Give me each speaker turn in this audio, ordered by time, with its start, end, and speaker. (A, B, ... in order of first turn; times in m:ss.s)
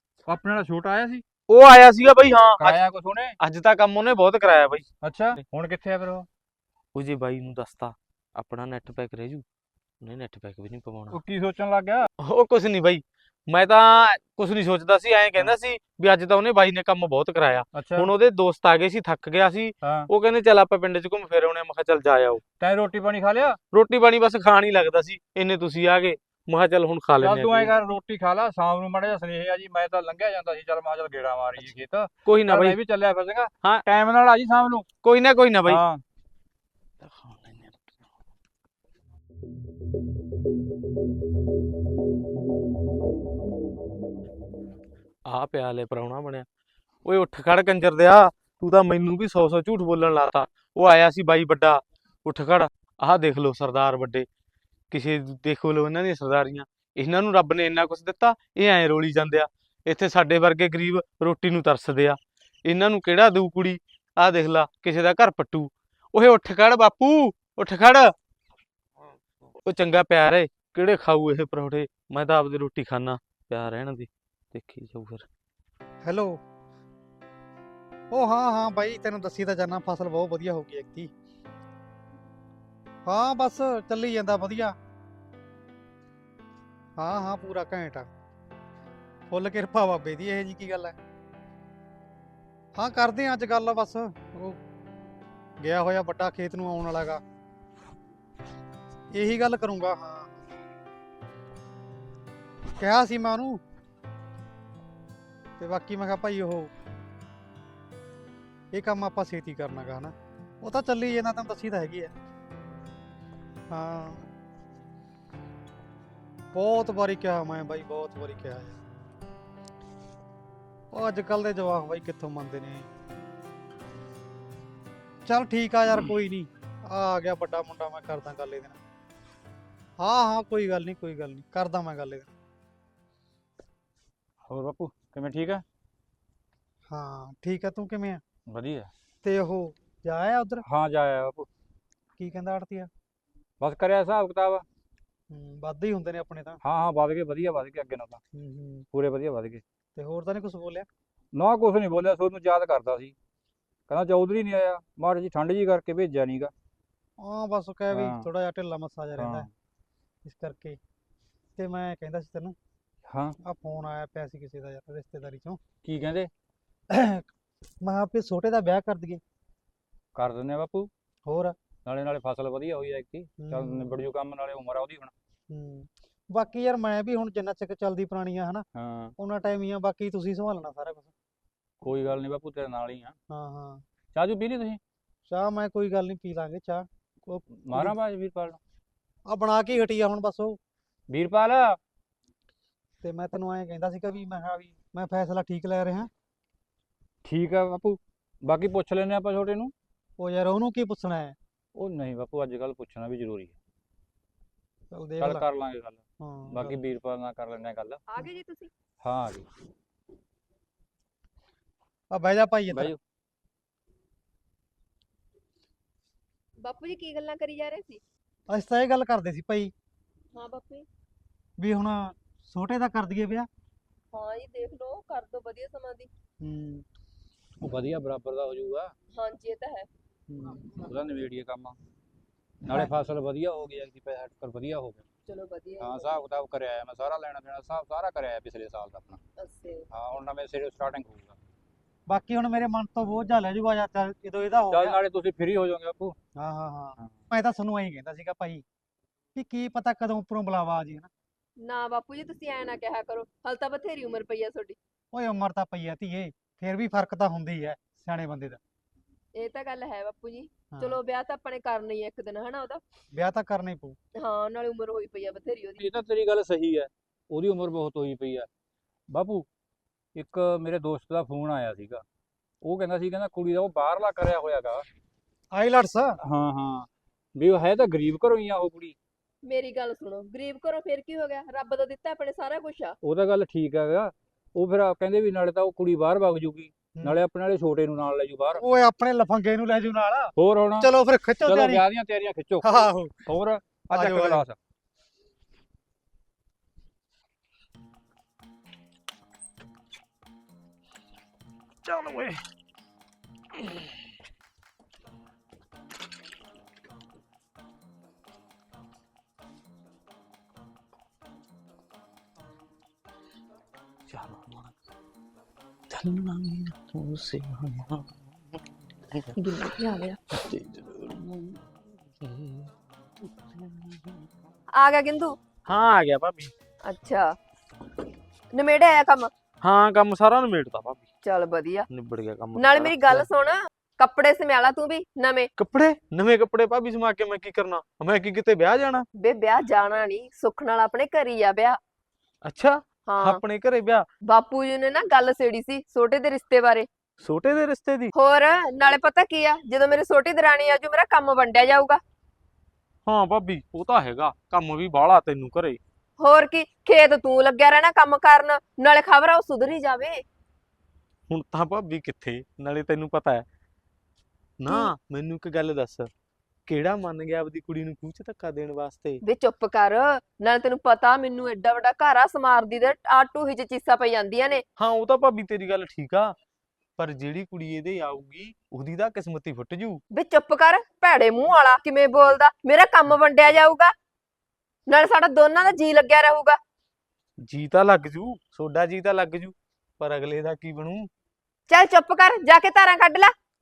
0:00.3-0:01.2 A
0:01.5-0:02.8 B
0:02.6-0:03.4 A
0:03.4-0:05.4 B
0:05.0-0:06.3 A
0:06.9-0:09.4 B
0:10.0-0:11.2 B
0:11.1-0:12.1 A
0:12.2-0:22.4 B
0:17.7-0:18.1 A
0:19.8-0:20.1 A
0:22.6-0:23.6 A
0:23.7-0:27.7 B
0:27.2-0:34.9 A
0:32.2-0:32.8 B
0:35.0-0:35.8 B
0:35.6-0:36.0 A
0:37.0-0:37.8 B
0:45.2-0:46.4 B
0:47.0-0:54.3 B
0:54.9-1:08.1 B
1:09.6-1:15.2 B
1:16.0-1:16.4 C
1:18.1-1:21.1 C
1:23.0-1:24.8 C
1:27.0-1:28.1 C
1:29.3-1:31.0 C
1:32.7-1:34.6 C
1:35.6-1:37.2 C
1:39.1-1:40.4 C
1:42.8-1:43.6 C
1:45.6-1:46.7 C
1:48.7-1:52.1 C
1:53.7-1:54.2 C
1:56.5-1:58.8 C
2:00.9-2:02.9 C
2:05.2-2:08.8 C
2:10.0-2:12.3 C
2:14.5-2:15.6 A
2:16.9-2:18.2 C
2:18.5-2:18.9 A
2:19.2-2:20.6 C
2:20.6-2:21.5 A
2:22.2-2:22.9 C
2:23.6-2:24.6 A
2:25.3-2:26.6 C
2:26.6-2:28.2 A
2:28.3-2:28.8 C
2:28.9-2:29.6 A
2:29.9-2:30.9 C
2:31.3-2:33.1 A
2:33.9-2:36.5 A
2:37.2-2:39.5 C
2:37.9-2:38.3 A
2:39.2-2:39.5 A
2:40.2-2:40.8 C
2:41.6-2:42.6 C
2:43.1-2:43.4 A
2:43.4-2:45.6 C
2:45.8-2:46.3 A
2:46.9-2:47.3 C
2:47.8-2:49.2 C
2:50.1-2:50.9 A
2:51.2-2:51.6 C
2:51.8-2:55.1 A
2:53.4-2:53.9 C
2:55.5-2:58.6 C
2:58.7-2:59.2 A
2:59.2-3:01.1 C
3:01.8-3:03.2 A
3:03.3-3:03.8 C
3:04.1-3:04.8 A
3:05.3-3:06.9 C
3:07.2-3:08.6 A
3:09.2-3:10.6 C
3:11.1-3:11.8 A
3:13.0-3:16.1 C
3:17.2-3:19.7 A
3:20.2-3:21.4 C
3:21.7-3:23.6 A
3:24.9-3:25.4 C
3:25.2-3:28.0 A
3:26.2-3:26.8 C
3:28.1-3:28.7 D
3:29.0-3:29.4 A
3:32.1-3:32.9 C
3:32.7-3:33.0 A
3:36.6-3:38.0 D
3:38.5-3:39.7 C
3:40.3-3:40.9 D
3:41.6-3:43.5 C
3:44.1-3:46.1 D
3:46.4-3:46.8 C
3:47.6-3:48.9 A
3:49.1-3:49.9 D
3:50.3-3:50.6 C
3:50.7-3:51.8 A
3:52.6-3:55.0 A
3:55.2-3:56.2 D
3:55.8-3:59.2 A
3:59.4-3:59.9 D
3:59.9-4:01.4 A
4:02.0-4:05.0 C
4:04.7-4:06.2 A
4:06.4-4:08.6 C
4:09.3-4:11.1 C
4:11.6-4:14.8 D
4:15.1-4:18.6 C
4:19.4-4:22.8 D
4:20.7-4:21.0 C
4:23.1-4:24.0 C
4:24.2-4:25.9 D
4:25.8-4:28.5 A
4:29.1-4:29.5 A
4:30.1-4:32.0 A
4:32.6-4:34.8 A
4:35.5-4:36.1 C
4:36.2-4:39.0 A
4:39.4-4:43.0 D
4:43.0-4:48.6 A
4:48.6-4:51.8 C
4:50.4-4:50.9 A
4:51.4-4:54.6 A
4:52.6-4:53.2 C
4:53.9-4:54.4 C
5:01.8-5:02.4 B
5:14.1-5:14.7 B
5:15.9-5:19.3 B
5:19.4-5:20.2 D
5:20.3-5:21.6 B
5:22.2-5:22.7 B
5:23.5-5:24.2 B
5:24.8-5:25.3 D
5:25.7-5:26.5 B
5:26.8-5:27.3 D
5:28.5-5:29.3 D
5:29.6-5:31.0 B
5:31.2-5:31.9 D
5:31.9-5:33.3 B
5:32.5-5:35.5 D
5:35.6-5:39.1 B
5:39.2-5:41.8 D
5:42.4-5:44.0 B
5:43.0-5:43.4 D
5:44.2-5:46.9 D
5:47.2-5:48.1 B
5:48.1-5:52.0 D
5:53.0-5:55.8 B
5:56.2-6:00.2 D
6:01.3-6:03.4 B
6:04.6-6:06.1 B
6:06.7-6:09.2 B
6:09.2-6:14.6 D
6:14.8-6:16.3 B
6:17.0-6:20.0 B
6:20.1-6:23.9 D
6:24.9-6:26.6 D
6:27.4-6:31.1 B
6:31.7-6:33.3 D